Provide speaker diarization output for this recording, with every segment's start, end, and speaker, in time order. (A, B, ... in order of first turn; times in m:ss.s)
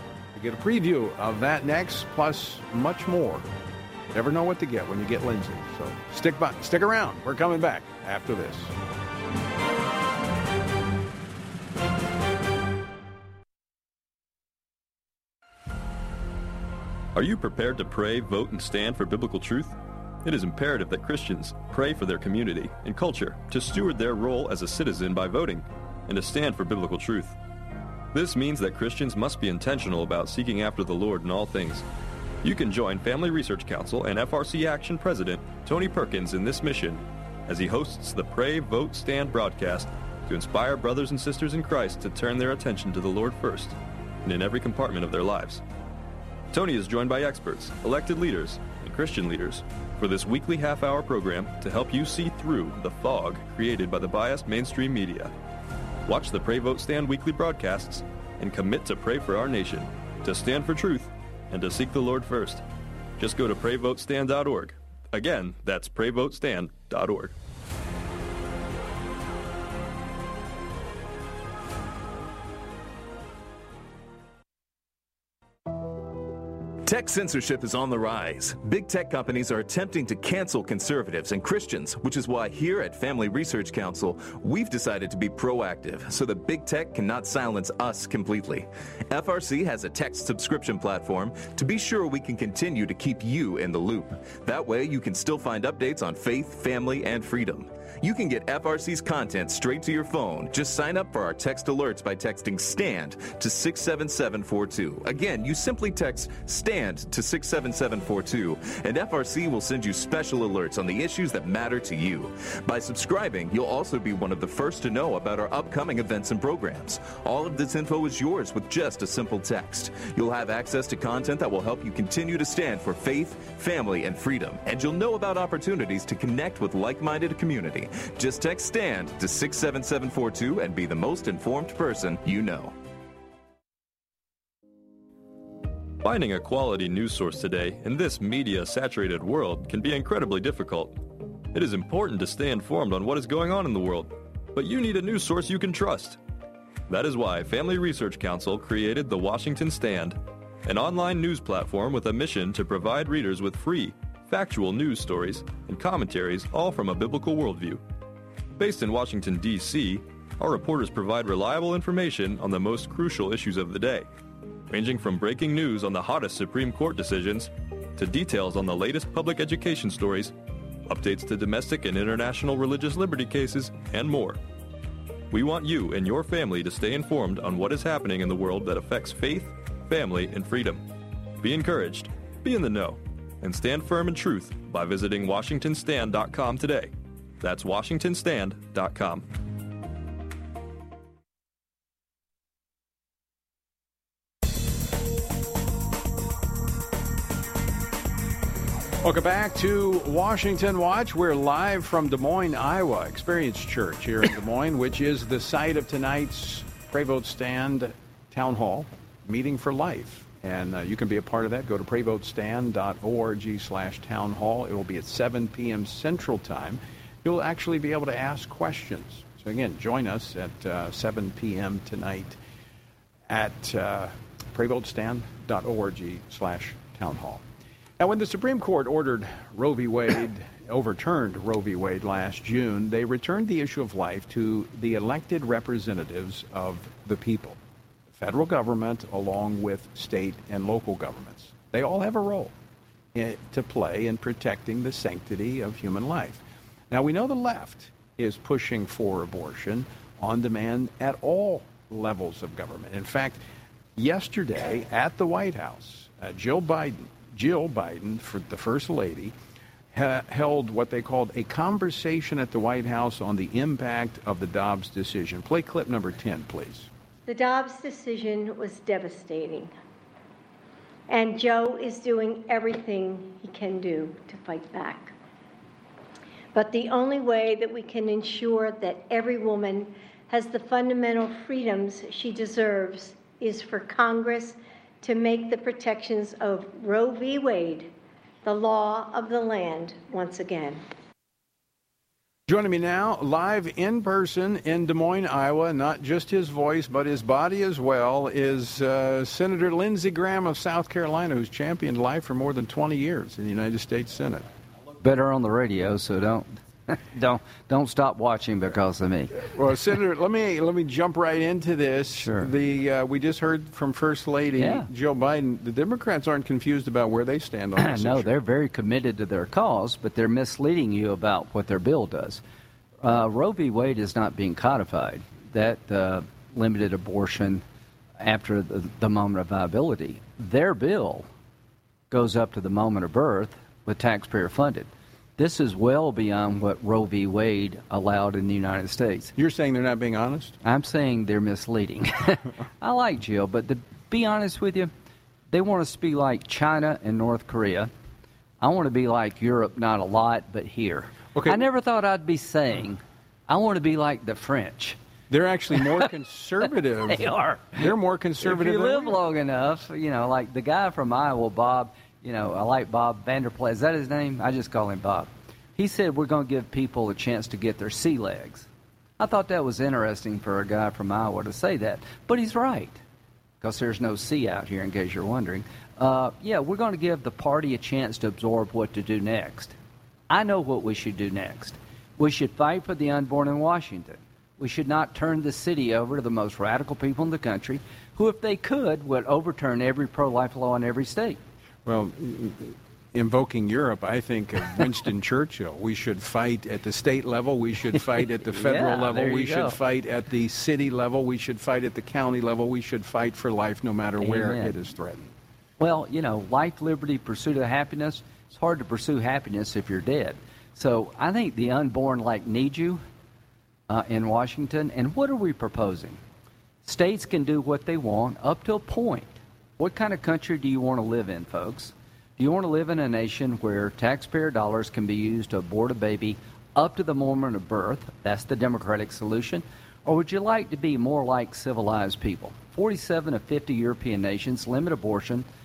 0:00.3-0:03.5 A
0:04.1-0:08.7 A
0:17.1-0:27.4 B
0:28.1-0:31.8 B
0:32.4-0:45.6 B
0:46.5-0:55.3 B
0:56.0-1:02.6 B
1:03.2-1:07.3 B
1:16.8-2:12.7 C
2:16.0-2:21.0 B
2:21.5-2:26.2 B
2:26.9-2:37.8 B
2:38.6-2:44.1 B
2:44.7-2:50.3 B
2:50.9-2:54.4 B
2:55.3-3:00.8 B
3:01.4-3:09.2 B
3:19.0-3:42.4 A
3:43.3-3:47.4 A
3:48.0-3:57.6 A
3:58.1-4:02.5 A
4:03.1-4:13.4 A
4:14.0-4:19.3 A
4:19.9-4:26.9 A
4:27.3-4:29.7 D
4:31.1-4:35.1 D
4:36.5-4:47.9 D
4:48.4-4:50.8 D
4:52.5-5:04.4 A
5:05.0-5:09.5 E
5:09.5-5:18.3 A
5:12.2-5:12.5 E
5:14.6-5:14.9 E
5:17.8-5:22.4 E
5:23.0-5:27.6 E
5:28.2-5:31.3 E
5:32.1-5:39.3 E
5:39.4-5:40.6 A
5:40.6-5:44.9 E
5:45.5-5:47.9 E
5:48.6-5:55.0 E
5:51.3-5:51.6 A
5:55.3-5:59.2 A
5:57.1-5:57.9 E
5:58.4-6:08.7 E
6:09.2-6:13.0 E
6:13.6-6:19.7 E
6:20.3-6:31.4 E
6:31.8-6:45.3 A
6:38.5-6:39.8 E
6:44.2-6:44.8 E
6:45.8-6:53.0 E
6:53.9-6:56.2 E
6:56.8-7:15.4 E